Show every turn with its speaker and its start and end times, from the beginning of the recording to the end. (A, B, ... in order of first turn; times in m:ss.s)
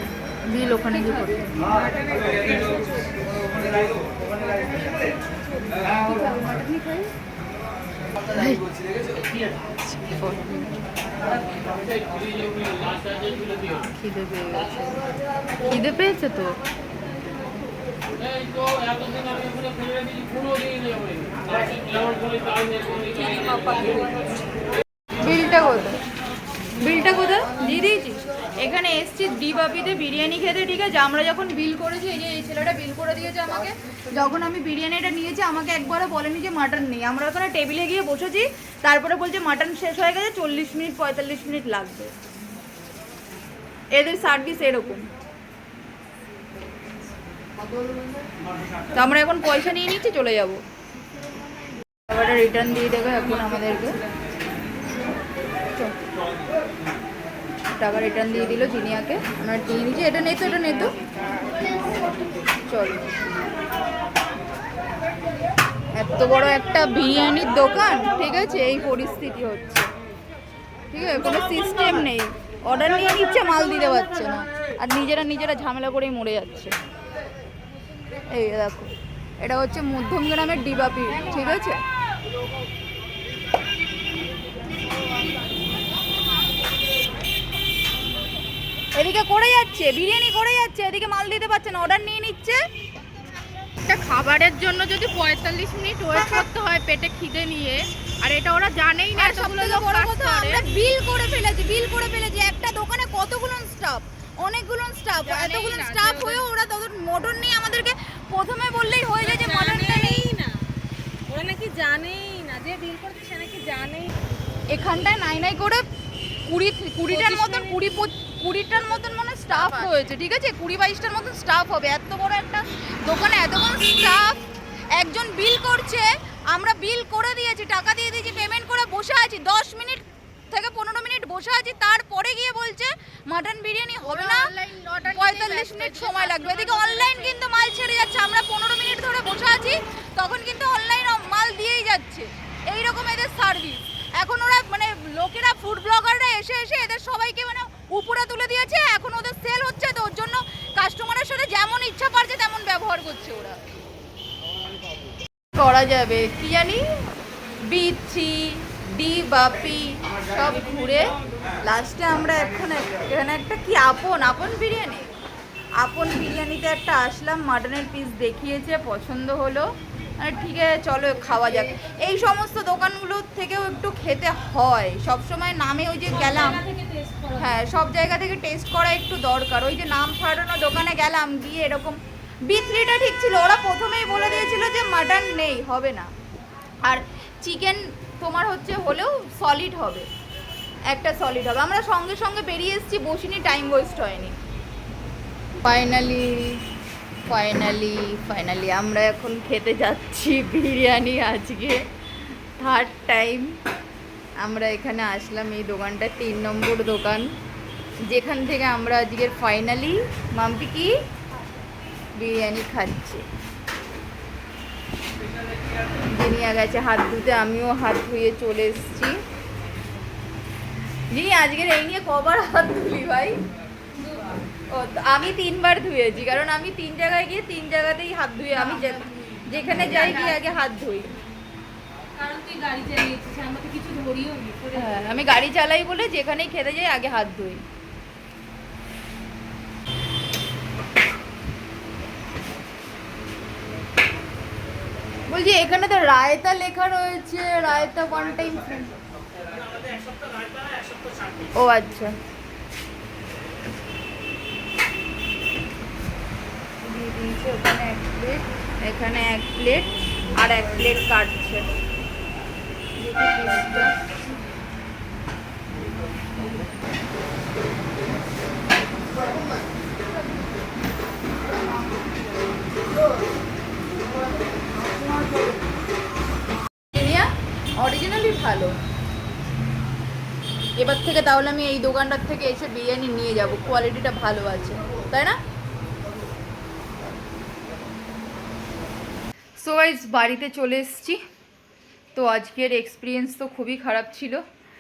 0:00.5-0:01.6 A
0:00.5-0:01.5 B
0:01.8-0:03.2 C
0:06.1-0:07.1 B
0:08.3-0:08.6 A
0:10.0-0:10.7 A
0:14.0-0:14.7 A
0:14.1-0:14.6 B
0:15.7-0:16.1 A
0:15.8-0:16.5 B
0:23.4-0:23.9 C
0:25.2-0:26.0 B
0:26.8-0:42.1 B
0:43.9-0:45.1 B
0:49.0-0:50.6 B
0:52.1-0:54.0 B
0:57.8-1:01.0 B
1:02.6-1:03.0 B
1:06.0-1:09.9 B
1:10.9-1:16.8 B
1:18.3-1:21.8 B
1:21.1-1:21.6 C
1:29.0-1:32.6 B
1:33.9-1:40.6 A
1:36.1-1:36.4 B
1:39.2-1:50.3 B
1:45.3-1:46.4 A
1:49.2-1:50.6 C
1:51.3-1:54.1 C
1:54.7-1:55.8 B
1:56.5-2:04.3 B
1:57.1-1:57.8 C
2:05.0-2:14.5 B
2:14.0-2:17.3 A
2:15.0-2:33.6 B
2:35.6-2:36.8 B
2:37.7-2:41.1 B
2:41.6-2:45.1 B
2:45.8-2:56.6 B
2:56.1-2:57.6 C
2:57.4-3:06.1 B
3:06.8-3:10.1 B
3:10.9-3:14.4 B
3:15.6-3:16.6 B
3:17.3-3:21.8 B
3:22.6-3:23.6 B
3:24.4-3:27.3 B
3:28.1-3:30.9 B
3:32.2-3:33.2 B
3:36.1-3:39.2 B
3:41.1-3:43.4 B
3:44.0-3:44.4 C
3:44.7-3:51.2 B
3:48.5-3:50.4 A
3:49.8-3:50.1 C
3:52.1-3:55.2 C
3:54.7-3:57.6 B
4:05.3-4:08.9 B
4:11.6-4:12.2 B
4:16.8-4:21.7 B
4:23.0-4:24.0 B
4:36.9-4:38.8 B
4:40.8-4:45.4 B
4:49.6-4:51.2 B
4:52.2-4:54.4 B